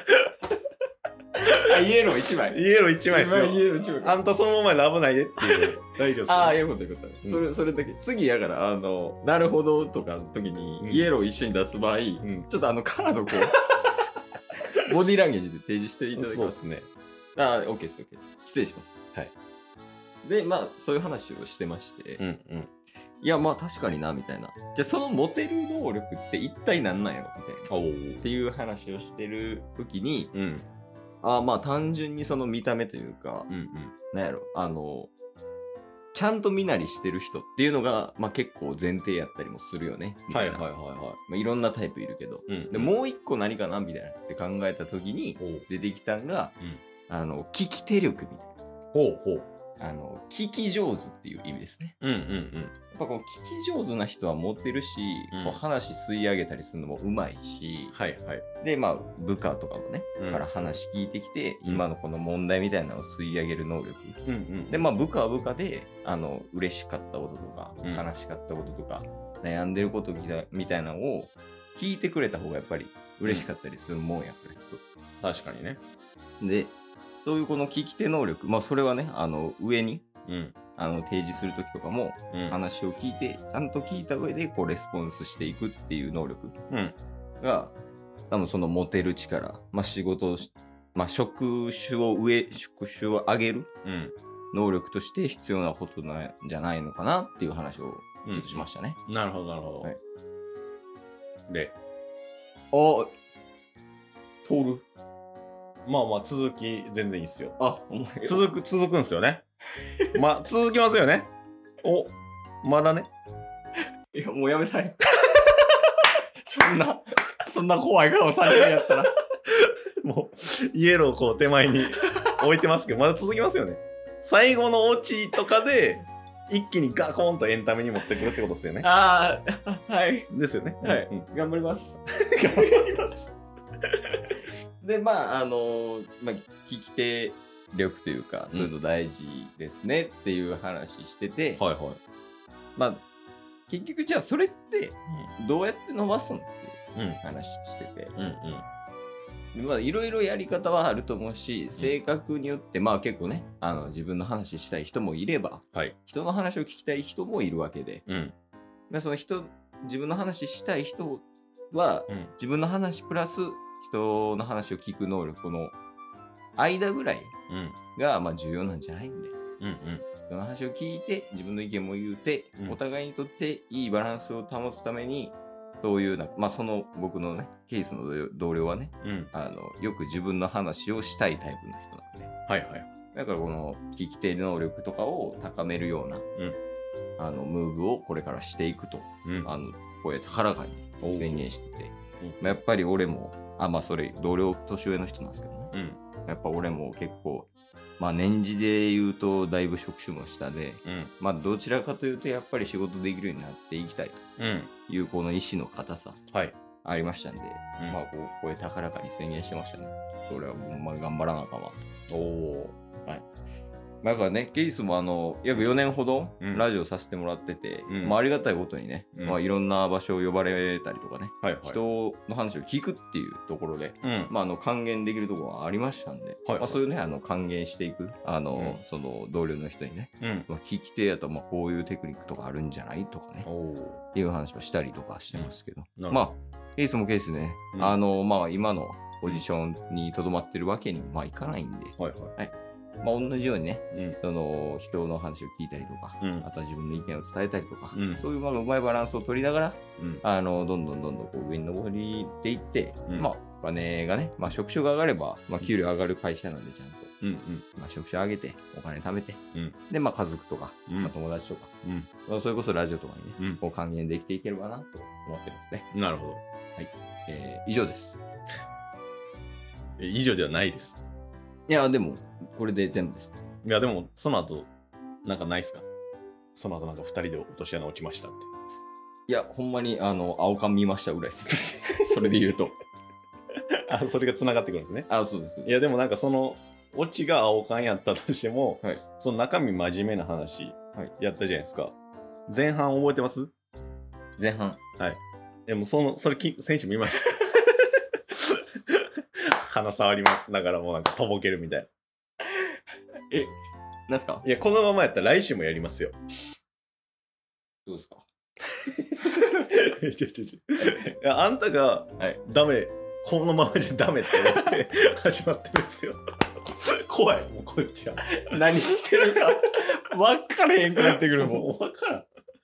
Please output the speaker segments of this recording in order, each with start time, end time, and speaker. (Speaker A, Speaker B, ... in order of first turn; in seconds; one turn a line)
Speaker A: 1.4-4.2
Speaker B: 2.5-6.6
Speaker A: 5.5-13.6
Speaker B: 10.8-11.1
Speaker B: 12.2-12.5
Speaker A: 14.6-16.6
Speaker B: 16.1-16.9
Speaker A: 17.4-18.9
Speaker A: 20.2-22.2
Speaker B: 22.2-22.7
Speaker A: 23.2-27.7
Speaker B: 27.7-28.2
Speaker A: 28.2-30.3
Speaker B: 30.3-30.7
Speaker A: 31.2-33.5
Speaker B: 33.5-33.9
Speaker A: 34.1-35.1
Speaker A: 36.1-40.7
Speaker B: 40.3-41.2
Speaker A: 41.3-46.5
Speaker B: 42.5-42.9
Speaker B: 45.4-45.6
Speaker A: 47.1-48.5
Speaker B: 48.9-49.5
Speaker A: 49.8-52.0
Speaker B: 52.0-52.7
Speaker A: 52.9-58.0
Speaker B: 55.3-55.6
Speaker B: 57.9-58.4
Speaker A: 58.6-74.8
Speaker B: 60.2-60.5
Speaker B: 64.3-64.9
Speaker B: 75.2-75.8
Speaker A: 76.4-80.0
Speaker B: 80.3-80.5
Speaker A: 80.8-86.5
Speaker B: 82.3-82.6
Speaker B: 86.7-87.0
Speaker A: 87.4-87.8
Speaker A: 88.3-93.7
Speaker B: 93.8-94.1
Speaker A: 94.5-99.0
Speaker B: 98.2-99.9
Speaker B: 101.5-101.8
Speaker A: 102.7-103.1
Speaker A: 104.4-104.9
Speaker B: 105.8-107.6
Speaker A: 107.6-108.5
Speaker B: 108.2-109.4
Speaker B: 110.1-111.3
Speaker B: 111.8-113.1
Speaker A: 114.1-119.2
Speaker B: 119.6-128.9
Speaker A: 128.8-130.3
Speaker B: 130.3-131.3
Speaker A: 130.8-133.3
Speaker A: 134.8-141.6
Speaker B: 141.6-142.0
Speaker A: 142.8-143.0
Speaker A: 143.7-148.2
Speaker B: 146.9-147.2
Speaker B: 148.2-148.7
Speaker A: 149.5-158.1
Speaker B: 158.1-158.3
Speaker A: 158.9-165.8
Speaker A: 166.6-167.3
Speaker B: 167.5-167.8
Speaker A: 167.9-169.3
Speaker B: 169.6-170.1
Speaker A: 170.3-182.3
Speaker B: 179.0-179.3
Speaker B: 182.5-182.9
Speaker A: 183.1-186.2
Speaker A: 187.2-195.7
Speaker B: 191.0-191.4
Speaker B: 192.2-192.6
Speaker B: 195.7-196.0
Speaker A: 196.3-204.2
Speaker B: 200.8-201.1
Speaker B: 204.4-204.7
Speaker A: 204.9-206.2
Speaker A: 206.8-211.8
Speaker B: 212.1-212.8
Speaker A: 214.0-233.5
Speaker B: 216.4-216.7
Speaker B: 217.9-218.2
Speaker B: 221.4-221.8
Speaker B: 224.0-224.3
Speaker B: 226.4-226.8
Speaker B: 230.2-230.5
Speaker B: 233.4-234.0
Speaker A: 234.1-257.1
Speaker B: 235.3-236.2
Speaker B: 242.0-242.3
Speaker B: 243.9-244.2
Speaker B: 246.2-246.5
Speaker B: 247.9-248.2
Speaker B: 250.0-250.2
Speaker B: 257.2-257.6
Speaker A: 257.8-261.7
Speaker B: 261.8-262.1
Speaker A: 262.2-265.9
Speaker B: 265.9-266.4
Speaker A: 266.8-268.2
Speaker B: 270.0-271.0
Speaker A: 271.7-273.4
Speaker B: 273.6-274.7
Speaker B: 275.2-275.9
Speaker B: 276.6-278.5
Speaker A: 279.3-282.8
Speaker B: 283.9-285.1
Speaker A: 285.1-285.8
Speaker B: 285.6-292.0
Speaker B: 292.5-293.5
Speaker A: 294.4-294.8
Speaker B: 295.0-301.9
Speaker A: 304.1-304.4
Speaker B: 304.4-306.2
Speaker A: 307.9-308.3
Speaker B: 309.1-318.5
Speaker A: 310.8-311.1
Speaker A: 318.4-321.6
Speaker B: 321.0-322.3